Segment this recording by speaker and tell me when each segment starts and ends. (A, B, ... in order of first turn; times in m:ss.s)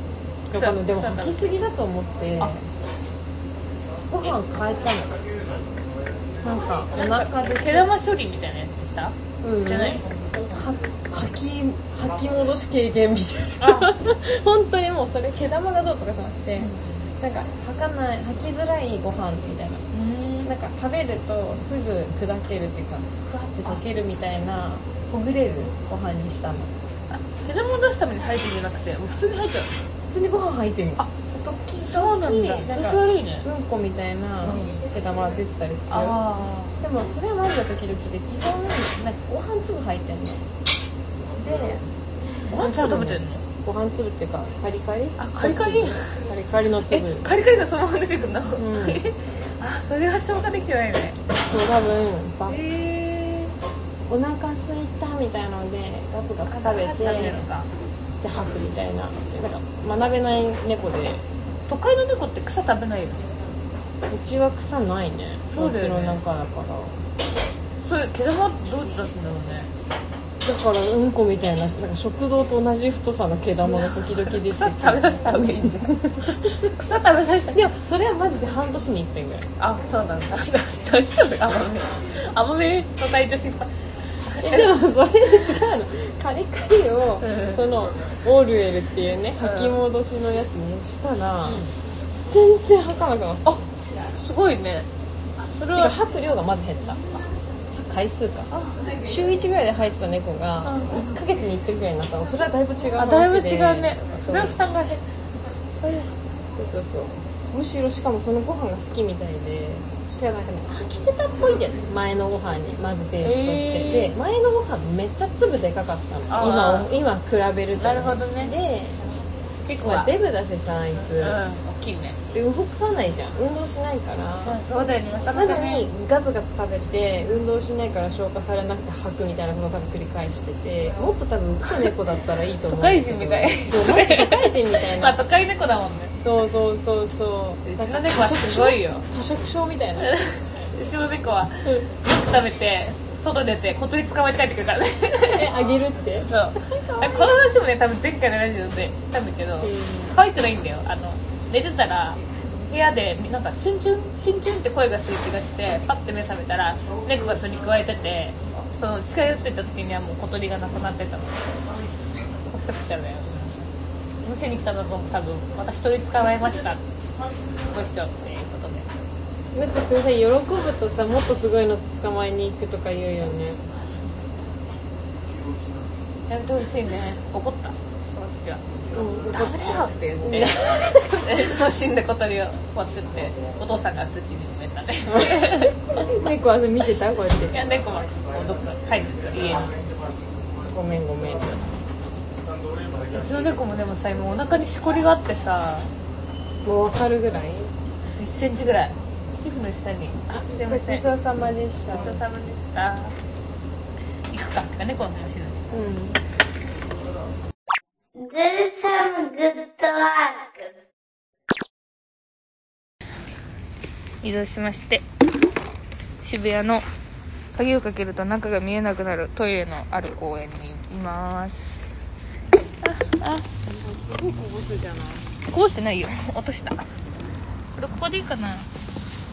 0:00.5-0:02.7 A
0:00.5-0:01.5 B
0:04.1-0:05.2 A
0:06.4-0:07.9 A
0:07.0-0:10.5 B
0:09.4-0:19.9 A
0:13.6-0:13.9 B
0:16.6-0:17.1 B
0:19.9-0:20.5 B
0:20.4-0:26.7 A
0:27.1-0:29.7 B
0:30.0-0:36.2 A
0:31.8-0:33.5 B
0:34.4-0:34.8 B
0:35.9-0:36.8 B
0:36.8-0:40.4 A
0:41.4-0:41.8 A
0:42.5-0:43.4 B
0:42.5-0:47.3 A
0:45.2-0:46.2 B
0:46.9-0:51.2 B
0:48.6-0:49.0 A
0:51.5-0:52.6 A
0:52.5-0:53.6 B
0:54.1-0:57.5 A
0:56.5-0:57.7 B
0:58.2-1:01.2 A
1:01.7-1:03.3 B
1:04.1-1:07.0 A
1:05.5-1:06.2 B
1:07.8-1:09.7 B
1:10.4-1:16.7 A
1:13.7-1:17.6 B
1:17.5-1:19.5 A
1:19.6-1:23.7 B
1:24.2-1:24.7 B
1:24.4-1:31.7 A
1:27.2-1:27.6 B
1:29.4-1:29.8 B
1:31.4-1:31.7 B
1:32.3-1:33.7 A
1:34.1-1:34.9 B
1:35.4-1:36.0 B
1:35.7-1:37.0 A
1:37.7-1:38.5 A
1:39.0-1:44.6 A
1:40.6-1:41.0 B
1:43.0-1:45.0 B
1:45.8-1:46.1 B
1:46.5-1:59.0 A
1:53.2-1:54.2 B
1:56.3-1:56.9 B
1:57.8-1:58.5 B
1:59.7-2:00.1 B
1:59.8-2:01.4 A
2:01.2-2:02.2 B
2:02.3-2:04.6 A
2:04.4-2:05.9 B
2:05.3-2:15.2 A
2:12.7-2:16.2 B
2:16.2-2:20.2 A
2:17.6-2:19.0 B
2:20.1-2:25.5 B
2:25.3-2:27.4 A
2:26.3-2:41.4 B
2:29.6-2:30.2 A
2:42.5-2:43.7 B
2:44.2-2:46.8 B
2:47.6-2:48.9 B
2:49.5-2:53.6 A
2:53.7-2:54.4 B
2:56.3-2:58.6 B
2:58.9-3:01.5 A
2:59.3-3:05.8 B
3:05.1-3:07.6 A
3:07.5-3:09.8 B
3:10.6-3:11.7 A
3:13.1-3:15.9 B
3:16.6-3:17.7 A
3:18.0-3:21.1 B
3:20.4-3:22.3 A
3:21.8-3:23.2 B
3:24.3-3:25.7 B
3:25.7-3:26.2 A
3:28.2-3:30.8 C
3:34.2-3:35.0 B
3:36.2-3:36.9 B
3:37.6-3:41.6 B
3:42.8-3:43.5 B
3:43.6-3:45.4 A
3:45.5-3:47.0 B
3:47.8-3:48.7 B